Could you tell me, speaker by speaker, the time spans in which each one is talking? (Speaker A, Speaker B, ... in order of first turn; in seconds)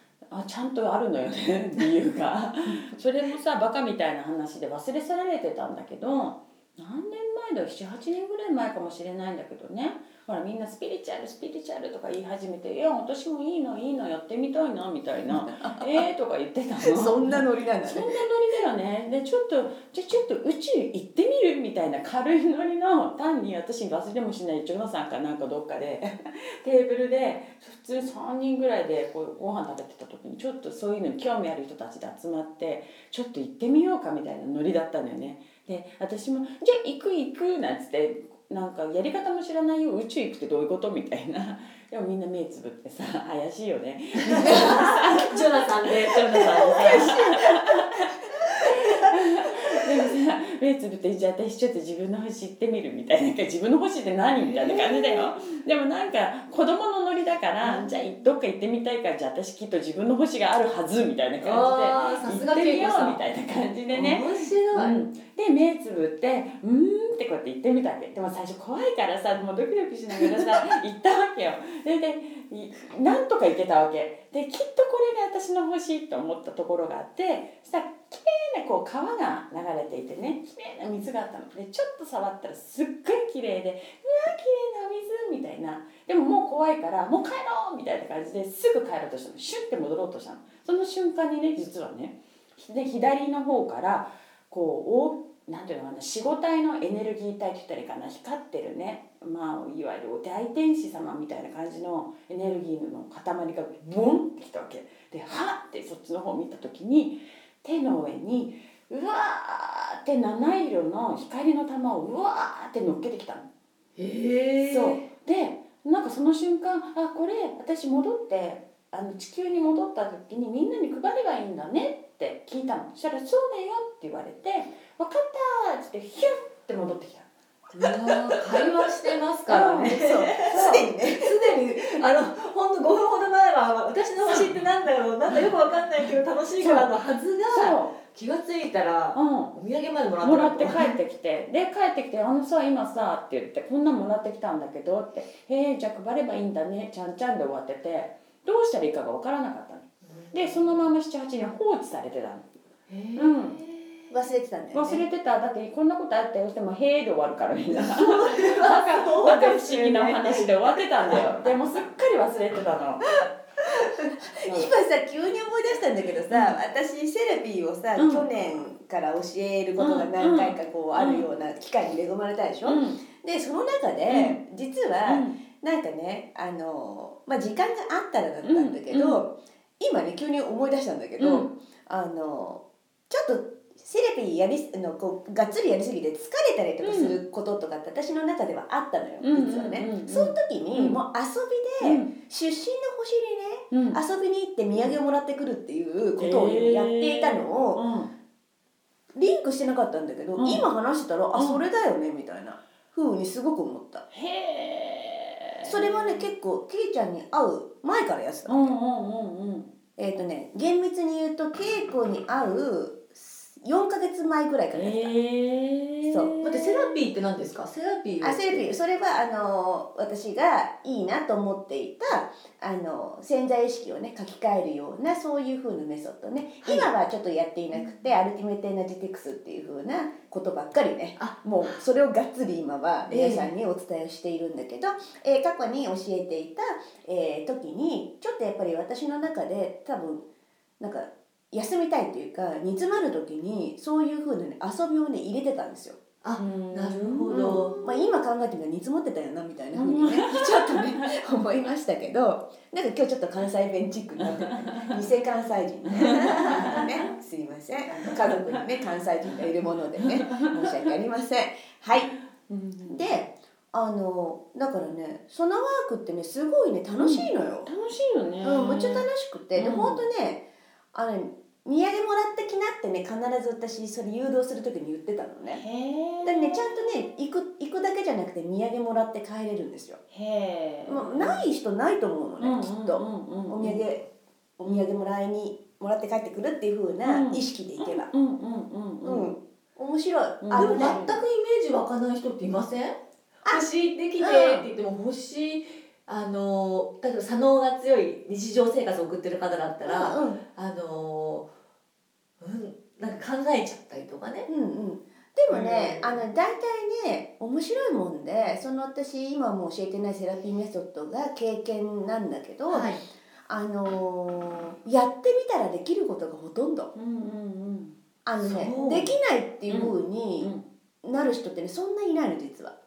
Speaker A: 0.3-113.5, 114.7-127.3, 128.1-128.8, 129.5-130.9, 136.6-136.9, 137.5-137.9, 139.1-139.6, 140.2-152.4, 153.2-153.6, 154.7-163.2, 164.4-164.7, 166.3-166.6, 167.9-168.3, 169.8-171.3, 172.6-173.0, 174.1-174.4, 175.1-175.4, 178.4-179.2, 181.2-181.5, 186.8-187.2, 189.2-191.0, 191.8-192.1, 193.7-194.0, 196.2-198.1, 200.4-200.6, 201.3-201.6, 204.1-206.2, 208.4-209.7, 214.7-216.9, 246.4-248.0, 249.7-251.1, 254.5-254.9, 255.9-257.0, 258.0-258.6, 260.0-260.9, 262.5-263.2, 267.0-270.1, 275.5-276.9, 280.1-281.4, 282.4-283.9, 284.6-285.0, 287.0-289.3, 290.4-291.2, 316.9-318.0, 319.7-320.6
Speaker B: 15.3-16.1, 16.8-18.2, 129.9-131.5, 154.1-155.0, 163.6-197.8, 199.1-204.1, 205.6-208.7, 210.0-215.1, 216.1-216.3, 218.2-240.2, 240.8-246.0, 247.3-262.1, 262.9-267.7, 268.4-275.6, 276.2-280.0, 280.9-284.0, 284.6-288.1, 289.0-291.0, 294.2-294.6, 299.9-300.4, 304.5-312.9, 313.5-316.9, 318.2-320.5, 321.0-322.8
Speaker C: 44.2-47.6, 54.4-55.3, 61.4-63.2, 63.9-65.0, 114.0-115.1, 127.8-140.9, 150.1-150.7, 152.9-154.1, 157.7-161.1, 216.4-218.7, 226.6-226.9, 231.2-231.8, 233.1-233.5, 246.2-247.8, 290.6-301.5, 302.4-304.5, 305.5-306.2, 312.7-313.0, 318.4-319.1